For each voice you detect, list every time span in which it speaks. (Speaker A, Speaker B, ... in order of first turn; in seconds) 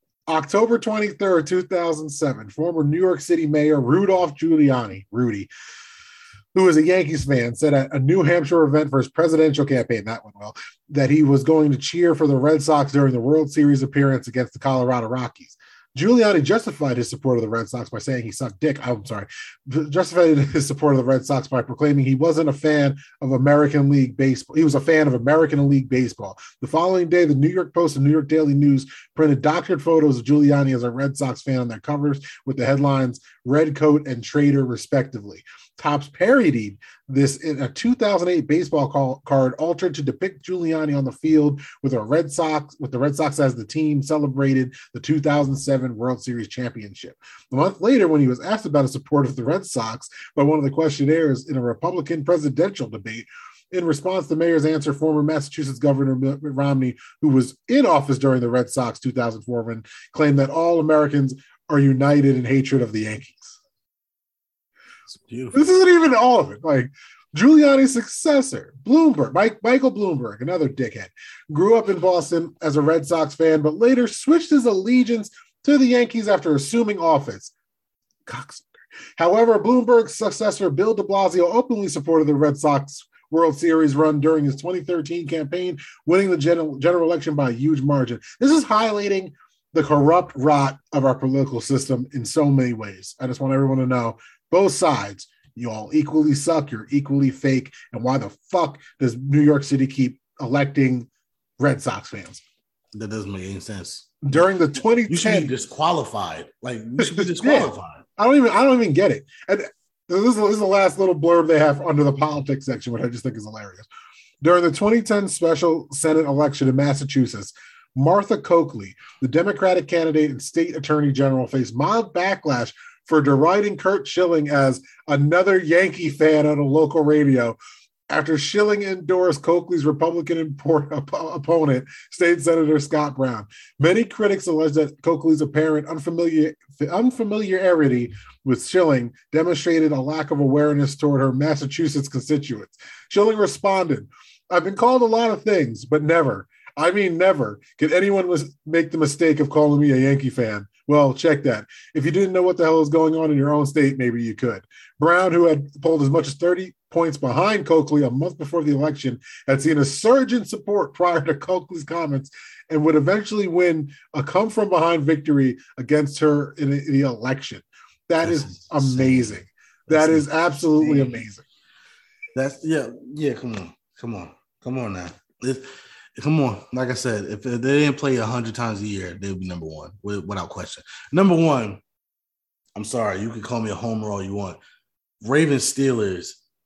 Speaker A: 0.3-5.5, 6.5-63.6, 65.5-77.5, 78.3-101.1, 101.6-102.4, 104.2-105.5, 107.0-113.9, 114.4-127.6, 128.1-171.4
Speaker B: 65.2-65.7, 102.9-104.4, 105.1-108.0, 168.2-170.3, 170.8-171.2, 172.3-181.8, 182.8-184.6, 185.2-186.4